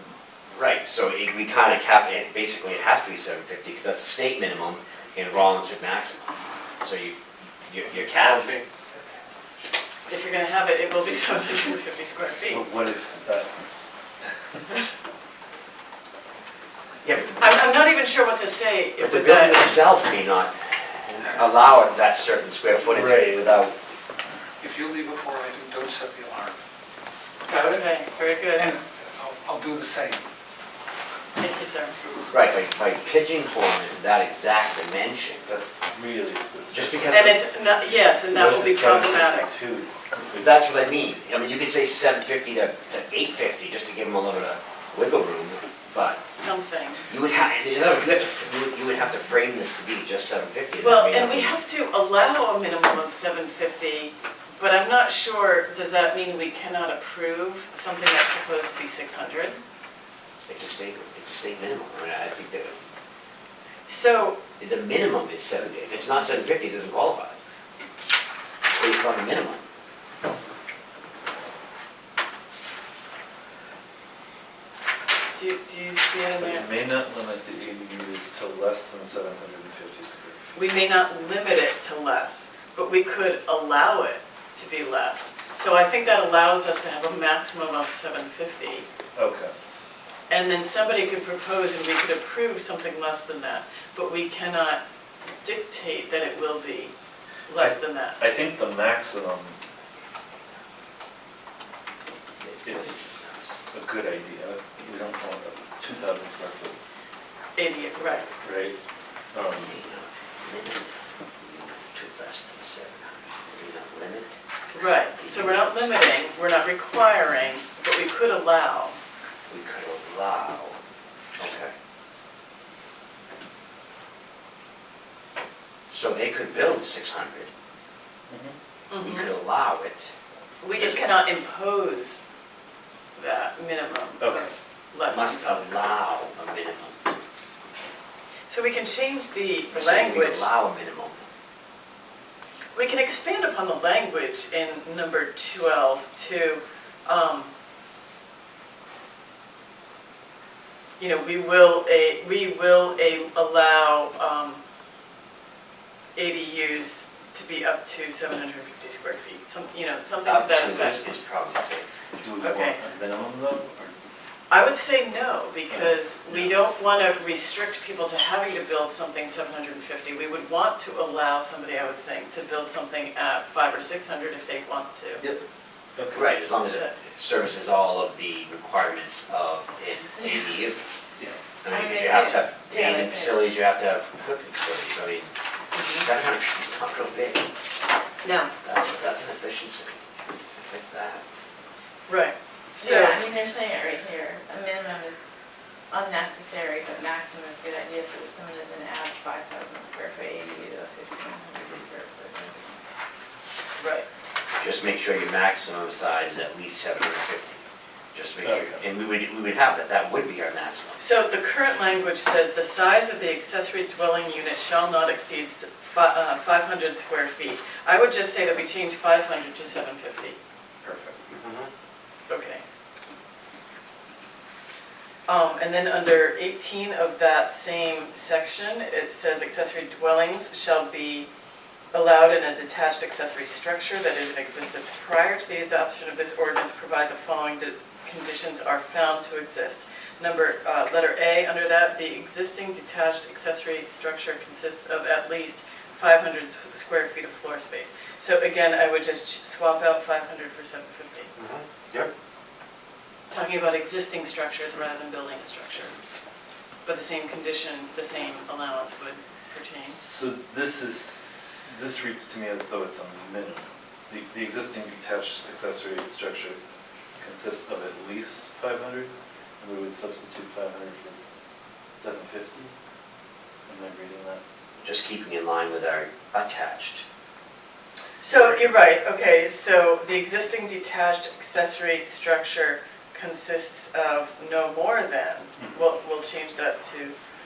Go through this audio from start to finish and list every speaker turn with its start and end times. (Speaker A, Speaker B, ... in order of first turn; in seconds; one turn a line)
Speaker A: 0.5-8.6
Speaker B: 8.1-8.6
Speaker C: 10.1-12.7
Speaker D: 12.5-13.9
Speaker A: 17.0-17.5
Speaker C: 17.4-19.7
Speaker A: 19.0-20.5
Speaker A: 21.1-23.8
Speaker D: 22.9-23.5
Speaker B: 24.6-26.6
Speaker B: 27.5-27.9
Speaker C: 27.5-28.8
Speaker B: 28.6-30.2
Speaker C: 31.4-31.9
Speaker A: 32.3-35.5
Speaker D: 35.5-37.3
Speaker A: 36.7-37.4
Speaker C: 37.1-39.5
Speaker D: 38.3-41.1
Speaker A: 40.4-46.2
Speaker C: 46.3-47.1
Speaker A: 47.1-51.6
Speaker C: 50.8-59.6
Speaker A: 60.5-62.8
Speaker C: 63.9-64.4
Speaker A: 64.6-67.4
Speaker A: 68.7-69.6
Speaker C: 75.3-76.7
Speaker D: 76.4-80.4
Speaker C: 80.5-88.8
Speaker D: 89.2-89.5
Speaker C: 90.3-94.8
Speaker C: 95.4-96.9
Speaker C: 97.5-98.2
Speaker D: 97.6-99.6
Speaker A: 102.4-103.5
Speaker D: 102.6-103.0
Speaker D: 103.7-106.8
Speaker C: 107.5-108.3
Speaker D: 108.4-108.8
Speaker D: 109.3-109.8
Speaker A: 109.5-114.3
Speaker C: 114.7-119.0
Speaker A: 115.1-115.9
Speaker A: 119.5-120.8
Speaker A: 121.4-121.7
Speaker A: 125.9-127.5
Speaker D: 128.3-128.6
Speaker C: 128.9-129.3
Speaker A: 129.0-130.0
Speaker C: 130.6-132.2
Speaker C: 133.2-135.9
Speaker D: 134.2-134.5
Speaker A: 135.1-137.1
Speaker C: 138.5-140.5
Speaker A: 139.7-141.3
Speaker C: 142.7-147.5
Speaker C: 151.0-154.6
Speaker C: 156.1-161.1
Speaker A: 160.2-161.9
Speaker D: 162.2-163.9
Speaker C: 162.4-162.8
Speaker C: 164.5-175.2
Speaker D: 165.7-165.9
Speaker D: 175.9-176.2
Speaker A: 176.1-180.8
Speaker C: 176.7-176.9
Speaker A: 181.6-187.5
Speaker E: 181.7-183.4
Speaker C: 185.8-186.0
Speaker E: 188.2-188.5
Speaker A: 188.6-190.0
Speaker A: 190.6-191.2
Speaker C: 192.1-193.2
Speaker E: 192.8-195.2
Speaker E: 195.9-202.8
Speaker C: 203.8-204.1
Speaker A: 204.6-211.0
Speaker D: 208.4-208.8
Speaker C: 211.0-221.2
Speaker A: 221.3-221.7
Speaker C: 222.3-222.6
Speaker C: 225.3-231.3
Speaker C: 231.9-251.3
Speaker A: 251.4-252.1
Speaker C: 253.3-255.9
Speaker C: 256.9-260.0
Speaker D: 259.8-266.6
Speaker D: 267.2-271.2
Speaker D: 271.9-272.7
Speaker D: 273.7-274.4
Speaker A: 274.8-277.0
Speaker C: 278.2-287.2
Speaker A: 278.3-278.6